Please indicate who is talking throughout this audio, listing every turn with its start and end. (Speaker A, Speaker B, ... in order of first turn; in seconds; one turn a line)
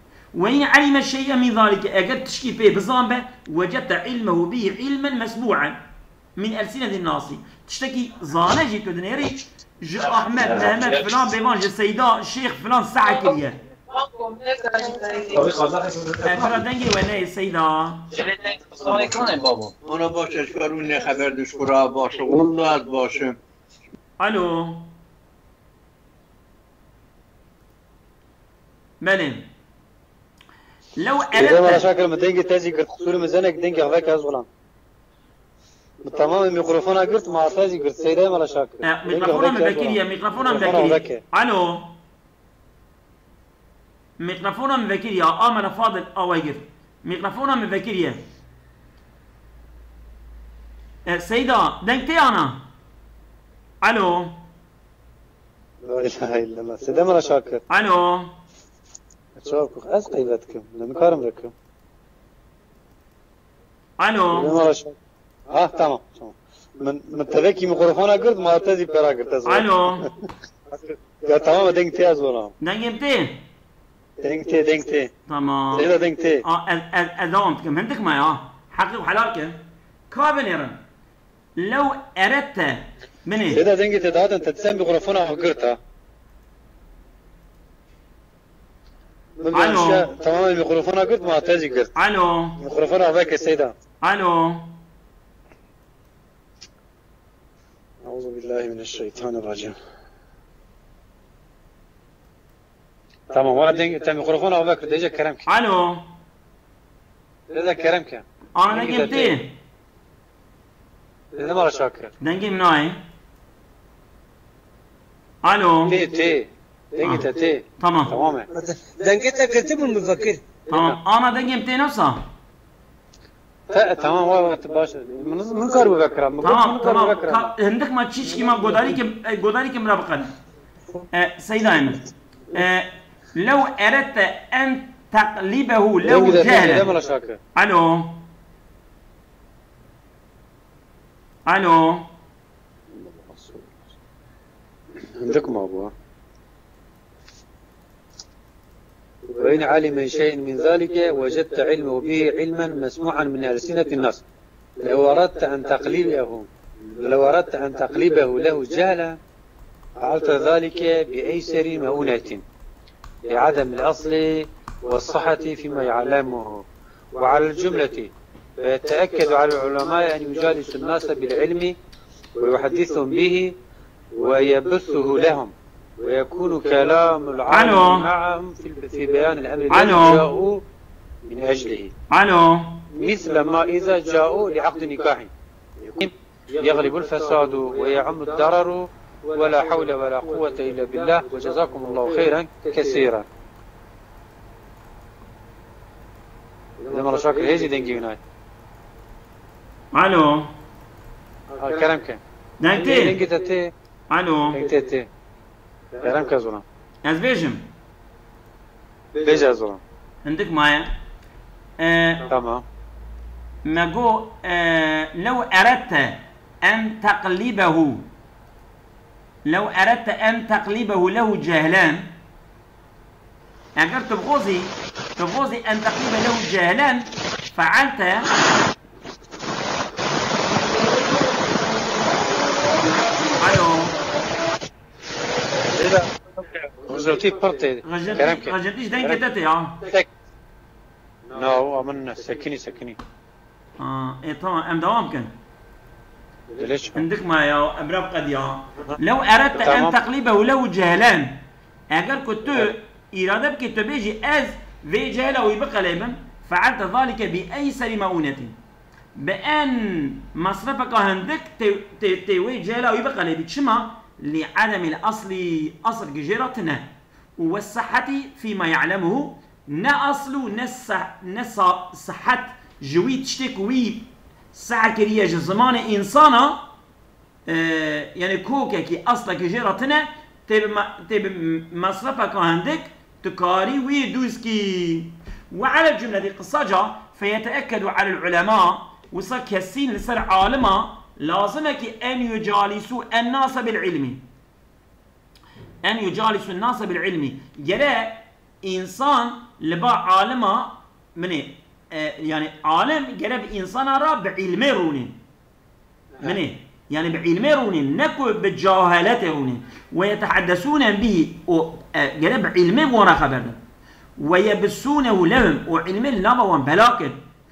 Speaker A: 0.3-5.8
Speaker A: 6.3-13.6
Speaker B: 10.4-11.0
Speaker B: 14.0-16.5
Speaker A: 16.2-18.1
Speaker B: 18.1-23.4
Speaker A: 24.2-24.9
Speaker A: 29.0-29.4
Speaker A: 30.9-31.9
Speaker C: 31.3-34.5
Speaker C: 36.0-41.2
Speaker A: 38.8-41.9
Speaker A: 44.2-48.2
Speaker A: 51.0-52.6
Speaker A: 53.8-54.4
Speaker C: 55.8-57.6
Speaker A: 57.7-58.3
Speaker C: 59.4-61.5
Speaker A: 64.0-64.5
Speaker C: 64.3-65.0
Speaker C: 65.5-70.1
Speaker A: 69.4-70.1
Speaker C: 70.7-72.5
Speaker A: 72.6-73.4
Speaker C: 74.2-75.1
Speaker A: 75.3-79.6
Speaker C: 75.7-76.4
Speaker A: 80.1-80.8
Speaker A: 81.5-83.6
Speaker C: 83.5-85.8
Speaker C: 89.4-91.9
Speaker A: 89.5-90.1
Speaker A: 91.9-92.6
Speaker C: 92.6-93.7
Speaker A: 94.0-94.7
Speaker C: 98.0-99.7
Speaker C: 103.3-105.5
Speaker A: 105.5-106.1
Speaker C: 107.5-109.4
Speaker A: 108.5-109.6
Speaker C: 111.3-112.1
Speaker A: 112.2-113.0
Speaker A: 115.4-116.0
Speaker C: 115.8-121.0
Speaker A: 117.0-117.3
Speaker A: 117.8-118.1
Speaker A: 120.7-122.2
Speaker C: 123.7-127.5
Speaker A: 126.4-130.3
Speaker C: 128.4-128.9
Speaker A: 131.1-132.0
Speaker A: 132.5-136.9
Speaker C: 136.0-137.4
Speaker A: 137.5-138.2
Speaker A: 141.4-142.1
Speaker C: 142.9-143.8
Speaker C: 145.1-145.9
Speaker C: 149.3-154.2
Speaker C: 154.8-159.2
Speaker C: 160.0-162.4
Speaker C: 163.2-171.8
Speaker C: 172.3-173.5
Speaker C: 174.1-180.6
Speaker A: 177.5-178.1
Speaker A: 179.7-180.2
Speaker C: 181.2-181.9
Speaker A: 182.1-182.8
Speaker C: 182.9-193.2
Speaker C: 196.9-198.2
Speaker A: 199.9-200.5
Speaker C: 201.5-202.2
Speaker A: 202.6-203.2
Speaker C: 202.8-203.7
Speaker A: 204.1-204.6
Speaker C: 204.5-205.1
Speaker C: 206.0-206.6
Speaker A: 207.0-207.7
Speaker C: 209.2-209.8
Speaker A: 210.2-210.9
Speaker A: 211.8-212.3
Speaker C: 212.2-212.6
Speaker A: 213.6-218.0
Speaker A: 219.4-222.1
Speaker A: 223.8-228.3
Speaker A: 233.4-234.0
Speaker C: 235.7-239.2
Speaker A: 237.8-239.8
Speaker C: 241.3-243.0
Speaker A: 243.8-245.3
Speaker C: 246.5-247.1
Speaker A: 246.9-258.5
Speaker C: 249.6-250.0
Speaker A: 259.2-276.6
Speaker A: 277.5-294.2
Speaker A: 295.8-305.1
Speaker A: 306.2-313.6
Speaker A: 314.2-317.2